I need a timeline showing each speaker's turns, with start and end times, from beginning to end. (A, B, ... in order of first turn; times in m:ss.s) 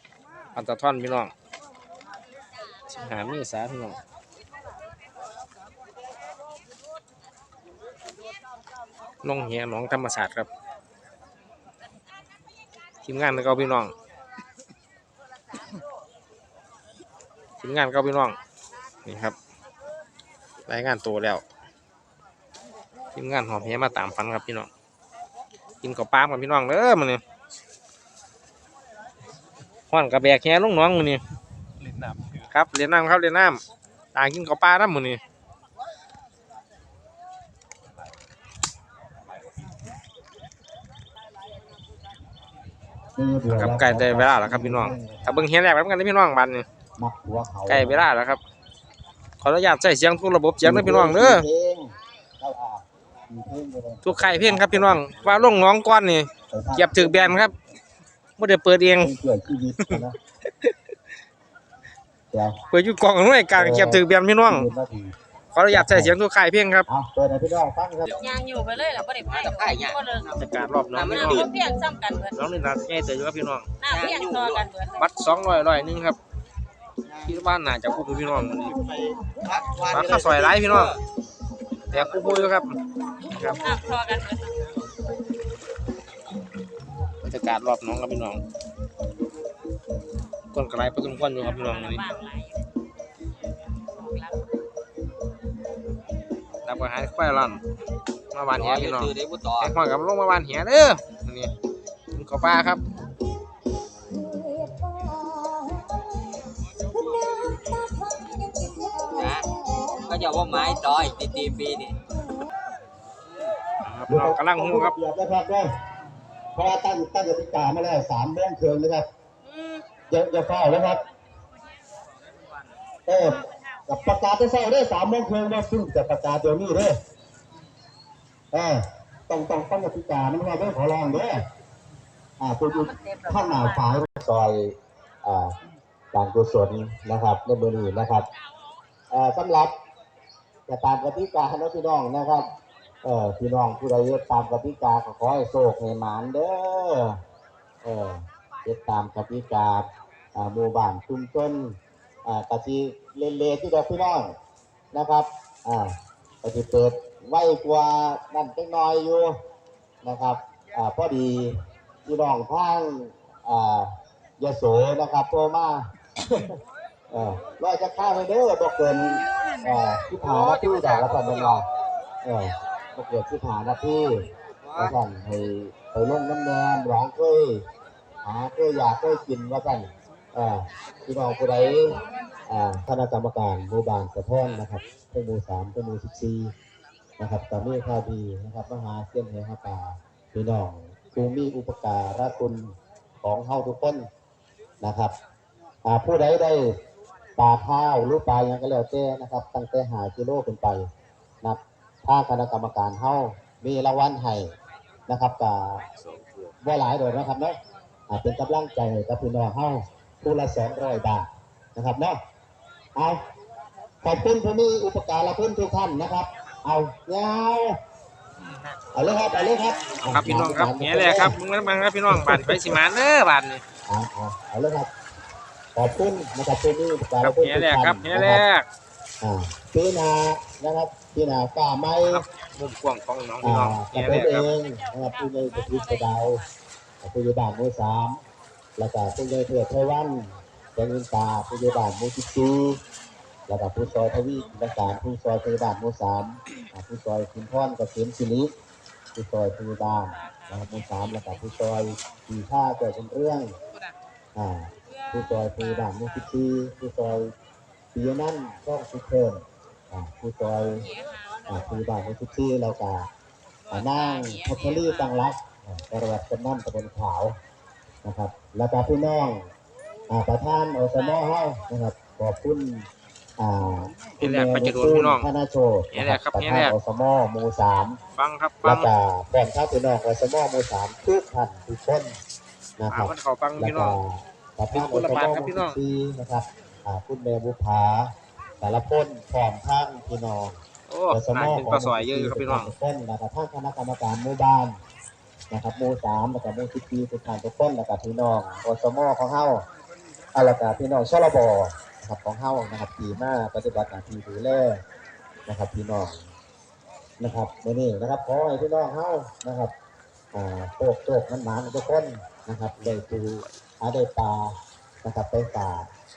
0:00.6-0:01.3 A
0:02.9-0:04.0 A
0:09.2-0:10.5 A
0:13.0-0:13.9 A
0:17.6-0:18.4 A
0:19.0-0:19.4 A
0:20.7-0:21.4 A
0:23.2-0:24.7 A
0:25.8-0:27.2 A
0:29.9-0:31.2 A
0:32.5-0:33.6 A
0:34.2-0:35.2 A
0:43.2-0:45.4 B
0:43.5-0:46.7 A
0:47.0-0:48.1 B
0:47.7-0:48.4 A
0:49.4-0:51.5 A
0:50.6-0:55.6 B
0:54.0-0:57.5 A
0:56.5-0:57.5 B
0:58.4-0:59.1 A
0:59.0-1:00.2 B
1:02.3-1:02.6 B
1:02.7-1:04.7 A
1:03.6-1:05.2 B
1:05.5-1:06.9 A
1:05.7-1:06.2 B
1:06.9-1:08.1 B
1:08.1-1:12.4 C
1:09.2-1:10.4 D
1:10.4-1:11.5 A
1:10.9-1:11.5 D
1:12.4-1:13.7 A
1:13.8-1:15.1 C
1:13.9-1:14.7 D
1:15.0-1:16.2 A
1:17.2-1:18.8 A
1:18.8-1:21.0 D
1:19.9-1:21.0 A
1:21.9-1:22.5 D
1:21.9-1:23.6 A
1:23.6-1:24.6 C
1:27.2-1:28.4 A
1:30.5-1:32.0 A
1:31.4-1:32.7 C
1:34.0-1:34.4 C
1:36.6-1:37.6 A
1:38.3-1:41.5 A
1:38.6-1:39.7 D
1:42.2-1:42.8 A
1:49.0-1:52.0 D
1:53.8-1:55.0 A
1:54.1-1:55.7 B
1:56.6-1:59.1 B
2:00.1-2:01.0 B
2:03.1-2:07.0 B
2:08.5-2:11.4 B
2:12.4-2:15.6 B
2:12.7-2:13.9 C
2:16.1-2:18.3 B
2:19.1-2:19.8 B
2:20.7-2:22.5 B
2:23.0-2:27.2 B
2:27.8-2:34.4 B
2:34.9-2:39.4 B
2:40.0-2:46.6 B
2:47.1-2:51.7 B
2:50.4-2:51.6 D
2:52.2-2:57.6 B
2:54.6-2:55.0 D
2:58.2-3:06.5 B
3:07.2-3:14.1 B
3:14.8-3:15.2 B
3:15.8-3:16.8 B
3:17.4-3:20.9 B
3:21.4-3:24.5 B
3:25.1-3:25.9 B
3:26.6-3:32.2 B
3:33.0-3:33.3 B
3:34.0-3:37.8 B
3:38.9-3:41.4 B
3:40.0-3:43.6 A
3:42.1-3:42.8 B
3:43.9-3:44.9 B
3:45.8-3:48.4 B
3:47.2-3:48.7 A
3:49.2-3:52.2 B
3:52.1-3:54.5 A
3:53.4-3:56.4 B
3:54.6-3:55.5 C
3:56.1-3:56.5 C
3:57.0-3:58.2 B
3:58.8-4:02.8 B
4:03.5-4:08.5 B
4:09.2-4:13.6 B
4:14.4-4:17.3 B
4:17.9-4:20.9 B
4:21.5-4:23.1 B
4:23.7-4:27.4 B
4:28.0-4:29.5 B
4:30.1-4:38.0 B
4:34.2-4:35.3 A
4:35.9-4:36.8 A
4:38.2-4:38.9 A
4:38.6-4:42.2 B
4:42.8-4:50.6 B
4:42.9-4:44.0 A
4:44.7-4:45.8 A
4:50.9-4:52.7 A
4:51.1-4:54.8 B
4:55.5-4:59.6 B
5:00.3-5:04.8 B
5:05.5-5:06.3 B
5:07.2-5:09.7 B
5:10.3-5:15.9 B